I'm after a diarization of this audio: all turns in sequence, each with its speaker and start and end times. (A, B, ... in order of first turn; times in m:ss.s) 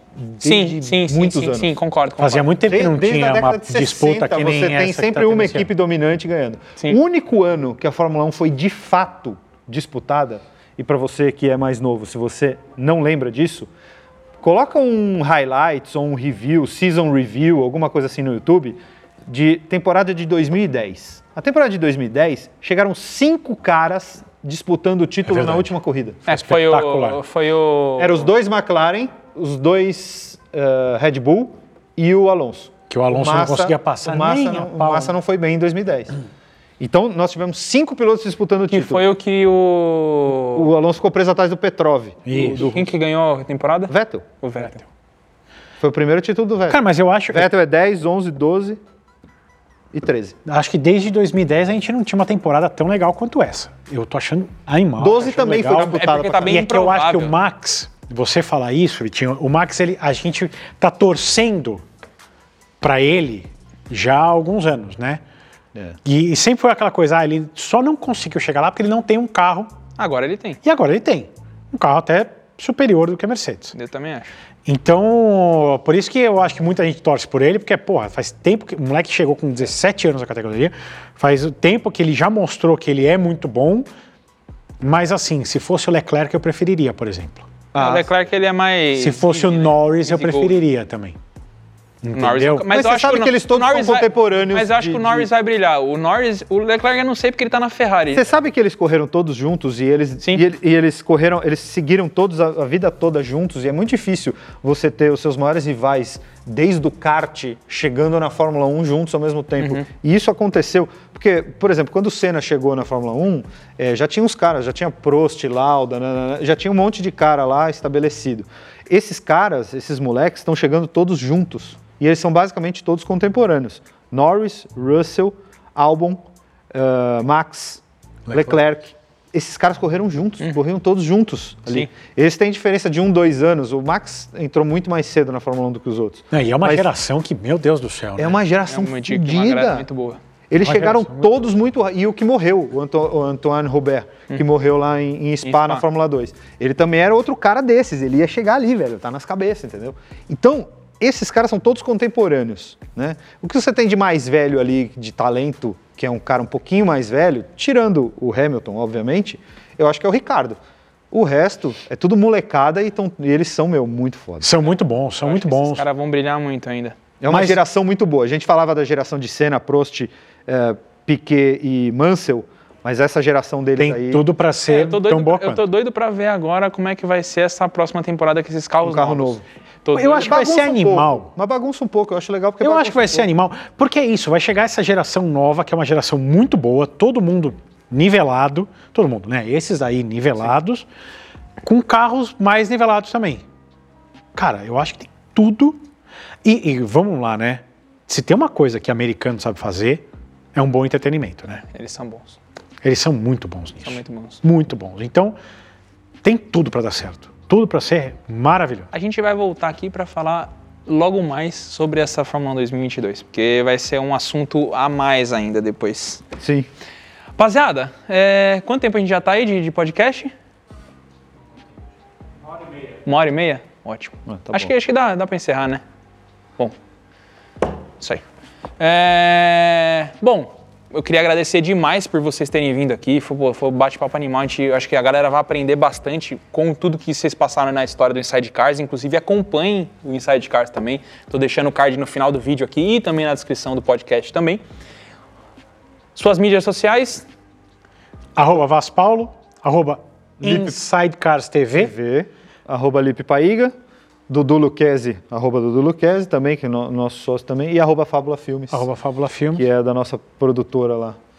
0:00.2-0:01.8 A
0:00.4-0:02.5 B
0:02.2-0:05.7 C
0:02.7-0:13.7 A
0:14.4-0:26.2 A
0:25.3-0:25.7 C
0:26.3-0:28.3 B
0:26.3-0:27.2 C
0:28.0-0:36.2 A
0:32.9-0:35.1 C
0:36.8-0:39.0 A
0:38.7-0:40.7 B
0:40.6-0:42.9 A
0:42.3-0:42.7 C
0:42.4-0:44.9 B
0:43.9-0:44.2 A
0:45.8-0:48.8 A
0:46.7-0:47.5 C
0:49.9-0:50.4 A
0:50.5-1:01.8 C
0:55.0-0:56.6 A
0:55.6-0:57.3 B
1:02.8-1:05.2 C
1:06.0-1:09.7 C
1:10.0-1:10.6 B
1:10.6-1:13.7 C
1:13.7-1:14.3 B
1:14.7-1:23.9 C
1:24.8-1:27.5 C
1:27.7-1:28.1 A
1:27.8-1:30.6 B
1:29.0-1:31.2 C
1:32.0-1:32.7 C
1:32.1-1:38.4 B
1:32.7-1:35.3 A
1:38.1-2:06.2 A
1:49.6-1:49.9 B
2:06.7-2:16.9 A
2:08.3-2:08.6 C
2:16.3-2:18.4 C
2:18.2-2:19.9 A
2:18.7-2:20.2 B
2:20.5-2:40.6 A
2:20.6-2:21.3 C
2:25.4-2:25.8 B
2:41.1-2:44.6 A
2:44.4-2:45.8 C
2:45.2-2:47.0 B
2:47.2-2:54.2 A
2:47.3-2:47.6 C
2:53.8-2:55.6 C
2:54.7-3:00.4 B
2:58.8-2:59.4 A
2:59.9-3:01.3 C
3:00.1-3:03.3 A
3:02.6-3:10.9 C
3:11.6-3:13.4 C
3:14.4-3:15.9 C
3:16.4-3:21.6 C
3:21.6-3:22.4 B
3:22.8-3:25.4 C
3:23.8-3:24.4 B
3:26.2-3:28.9 C
3:28.9-3:36.2 B
3:36.4-3:36.7 A
3:37.4-3:40.3 B
3:43.0-3:45.8 B
3:44.3-3:44.7 A
3:48.8-4:04.6 B
4:06.2-4:07.3 B
4:08.4-4:11.9 C
4:10.4-4:10.8 A
4:11.8-4:13.7 A
4:14.3-4:18.9 A
4:18.7-4:19.7 C
4:19.6-4:21.2 A